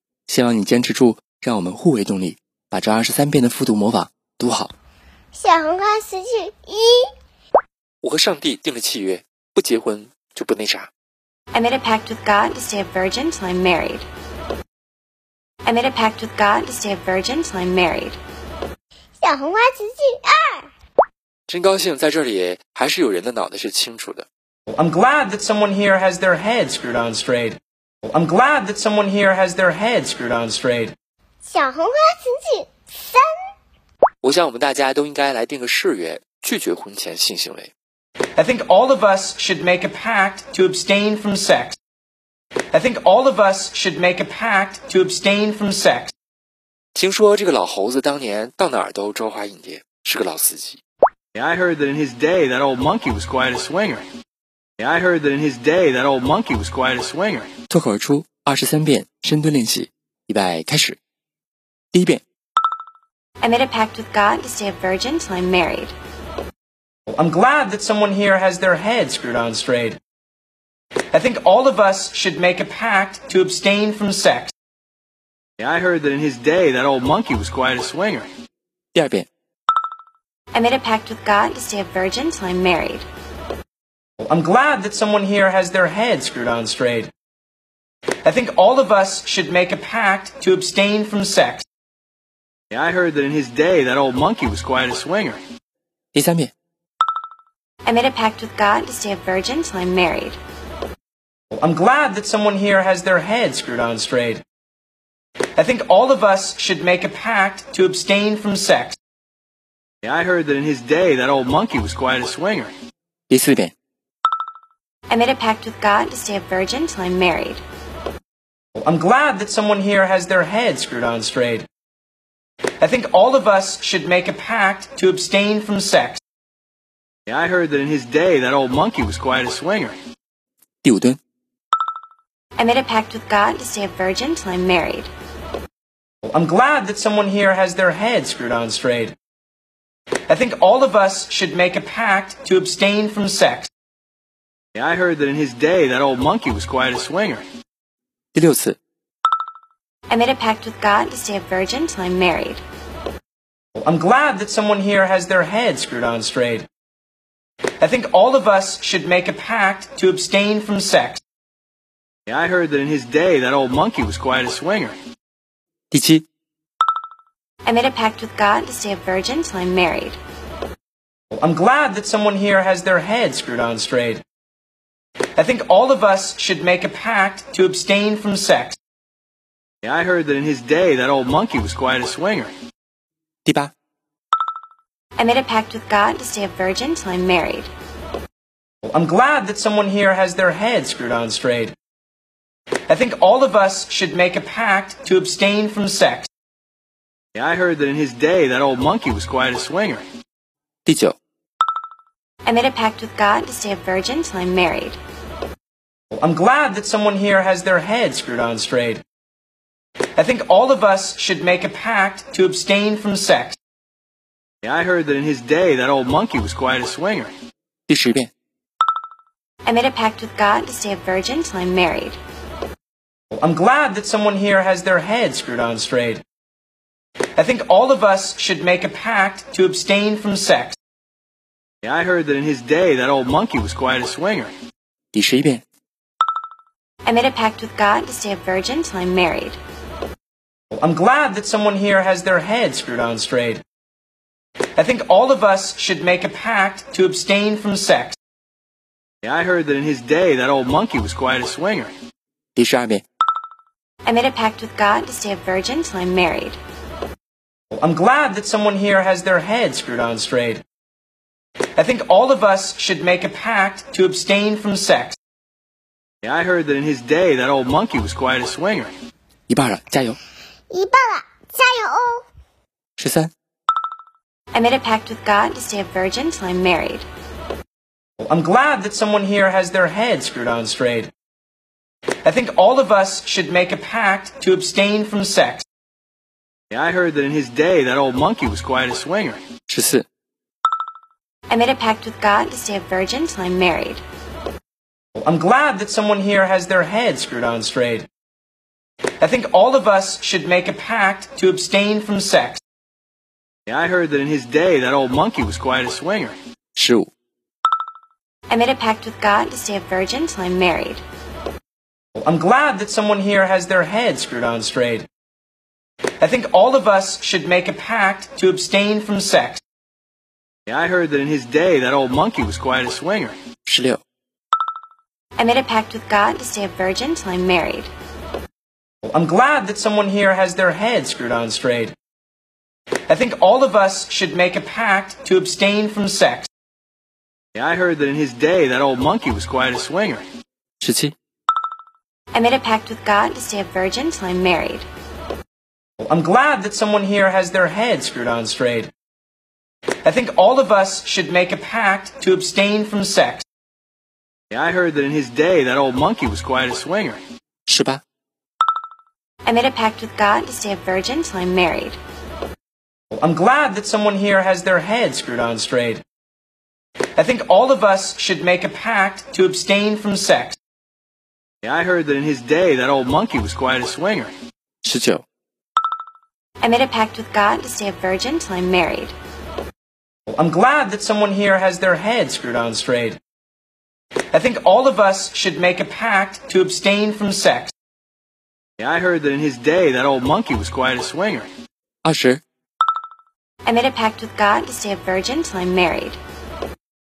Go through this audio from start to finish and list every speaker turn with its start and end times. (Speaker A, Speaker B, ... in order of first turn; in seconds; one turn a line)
Speaker A: 0.3-4.7
Speaker B: 5.4-7.1
Speaker A: 8.0-10.9
Speaker C: 11.5-14.1
Speaker C: 15.7-18.2
Speaker B: 19.2-20.7
Speaker A: 21.5-24.3
Speaker D: 24.7-30.9
Speaker B: 31.5-33.3
Speaker A: 34.2-37.7
Speaker D: 38.4-41.8
Speaker D: 42.7-46.1
Speaker A: 47.0-50.8
Speaker E: 51.4-54.1
Speaker E: 54.8-57.5
Speaker A: 57.7-61.0
Speaker A: 61.9-62.2
Speaker C: 63.4-66.0
Speaker D: 67.1-70.0
Speaker D: 71.1-74.5
Speaker E: 75.6-78.3
Speaker A: 79.0-79.3
Speaker C: 80.5-83.1
Speaker D: 84.2-87.1
Speaker D: 88.2-91.6
Speaker E: 92.7-95.4
Speaker A: 96.1-96.5
Speaker C: 97.8-100.4
Speaker D: 101.5-104.4
Speaker D: 105.6-109.0
Speaker E: 110.0-112.7
Speaker A: 113.3-113.7
Speaker C: 115.1-117.6
Speaker D: 118.8-121.7
Speaker D: 122.8-126.2
Speaker E: 127.3-130.0
Speaker A: 130.8-131.2
Speaker C: 132.6-135.1
Speaker D: 136.3-139.2
Speaker D: 140.3-143.7
Speaker E: 144.8-147.4
Speaker A: 148.3-148.8
Speaker C: 150.1-152.6
Speaker D: 153.8-156.7
Speaker D: 157.8-161.2
Speaker E: 162.3-165.0
Speaker A: 165.9-166.3
Speaker C: 167.7-170.2
Speaker D: 171.3-174.2
Speaker D: 175.4-178.8
Speaker E: 179.8-182.5
Speaker A: 183.4-183.7
Speaker C: 185.2-187.7
Speaker D: 188.9-191.7
Speaker D: 192.9-196.3
Speaker E: 197.4-200.1
Speaker A: 200.9-201.2
Speaker C: 202.4-205.0
Speaker D: 206.2-209.0
Speaker D: 210.2-213.6
Speaker E: 214.6-217.3
Speaker A: 217.9-218.3
Speaker C: 219.7-222.2
Speaker D: 223.4-226.2
Speaker D: 227.4-230.8
Speaker E: 231.8-234.5
Speaker A: 235.1-235.6
Speaker C: 237.1-239.6
Speaker D: 240.8-243.6
Speaker D: 244.8-248.2
Speaker E: 249.2-251.9
Speaker A: 252.6-253.0
Speaker C: 254.1-256.6
Speaker D: 257.8-260.6
Speaker D: 261.8-265.1
Speaker E: 266.2-268.9
Speaker A: 269.5-270.2
Speaker B: 270.7-272.2
Speaker A: 273.0-273.3
Speaker C: 274.5-277.1
Speaker D: 278.2-281.1
Speaker D: 282.2-285.6
Speaker E: 286.7-289.4
Speaker A: 289.7-290.1
Speaker C: 291.5-294.0
Speaker D: 295.2-298.1
Speaker D: 299.2-302.6
Speaker E: 303.7-306.4
Speaker A: 306.8-307.1
Speaker C: 308.5-311.0
Speaker D: 312.2-315.1
Speaker D: 316.2-319.6
Speaker E: 320.7-323.4
Speaker A: 323.7-324.0
Speaker C: 325.4-327.9
Speaker D: 329.1-331.9
Speaker D: 333.1-336.5
Speaker E: 337.6-340.2
Speaker A: 340.8-341.1
Speaker C: 342.3-344.9
Speaker D: 346.0-348.9
Speaker D: 350.0-353.4
Speaker E: 354.5-357.2
Speaker A: 357.7-358.0
Speaker C: 359.4-362.0
Speaker D: 363.2-366.0
Speaker D: 367.2-370.6
Speaker E: 371.6-374.3
Speaker A: 374.8-375.2
Speaker C: 376.6-379.1
Speaker D: 380.3-383.2
Speaker D: 384.3-387.7
Speaker E: 388.8-391.5
Speaker A: 392.1-392.4
Speaker C: 393.6-396.2